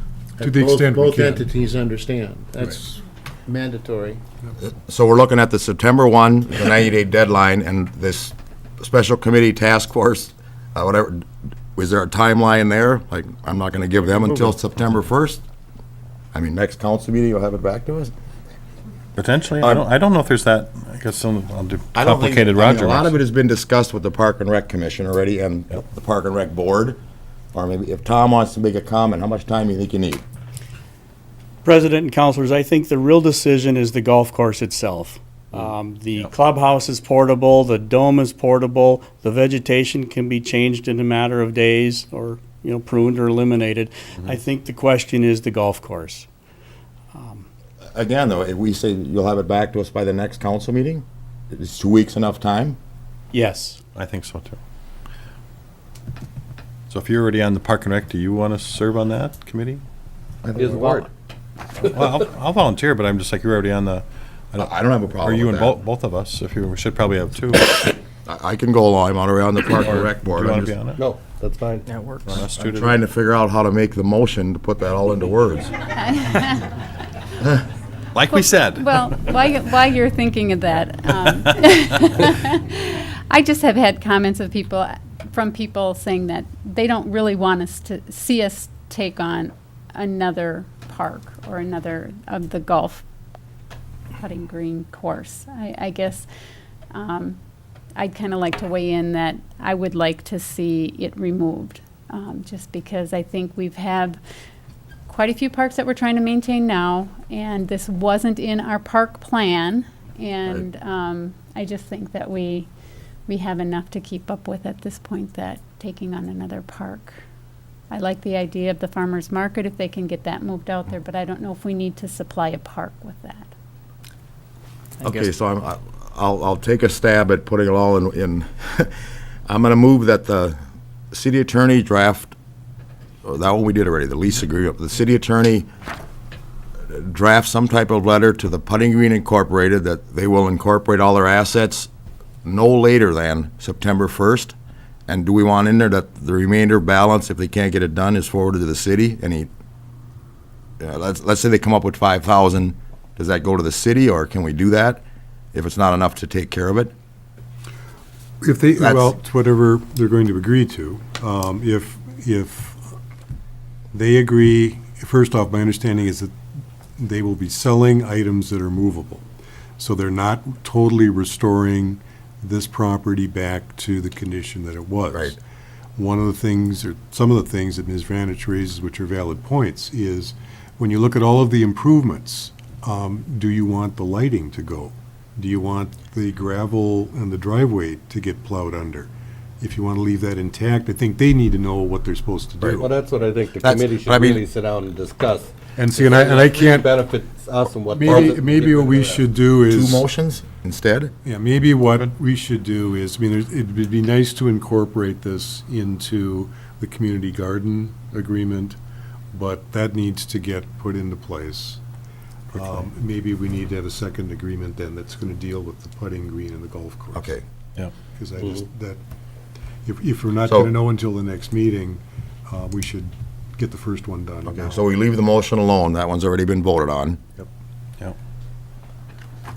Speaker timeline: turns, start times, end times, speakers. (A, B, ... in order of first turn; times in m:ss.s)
0:00.4-0:04.2 A
0:00.4-0:01.4 B
0:04.6-0:15.4 C
0:16.3-0:18.1 C
0:19.2-0:23.1 D
0:21.9-0:27.0 C
0:27.5-0:30.2 C
0:31.6-0:46.3 E
0:47.1-0:47.4 E
0:47.9-0:52.8 C
0:53.3-0:53.8 E
0:53.9-0:54.6 D
0:56.9-0:59.8 D
1:00.4-1:01.1 C
1:00.6-1:01.1 F
1:01.8-1:07.9 D
1:04.6-1:05.8 C
1:08.2-1:10.7 C
1:09.8-1:11.0 D
1:11.0-1:11.9 F
1:12.2-1:13.0 D
1:12.6-1:15.7 C
1:16.0-1:16.7 G
1:18.1-1:19.3 D
1:18.3-1:33.0 G
1:21.2-1:21.6 D
1:34.2-1:36.2 G
1:36.9-1:37.4 G
1:38.0-1:44.2 G
1:45.1-1:52.7 G
1:53.3-1:57.2 G
1:57.9-2:03.5 G
2:05.0-2:10.6 C
2:11.1-2:12.3 C
2:13.2-2:15.7 C
2:16.8-2:21.9 C
2:22.4-2:24.5 C
2:25.1-2:29.5 C
2:30.8-2:35.0 C
2:35.5-2:36.9 C
2:38.4-2:42.9 B
2:38.8-2:39.1 C
2:43.9-2:46.4 B
2:47.0-2:49.2 B
2:49.8-2:55.4 B
2:56.0-3:09.1 B
3:09.6-3:12.9 B
3:12.6-3:12.9 C
3:12.7-3:19.3 F
3:13.6-3:14.4 C
3:15.8-3:17.0 B
3:17.9-3:20.0 B
3:19.7-3:21.1 C
3:21.2-3:28.8 B
3:29.3-3:31.8 B
3:32.5-3:37.3 B
3:37.1-3:37.4 C
3:38.1-3:39.0 B
3:39.8-3:44.8 B
3:40.4-3:40.7 C
3:44.5-3:47.2 C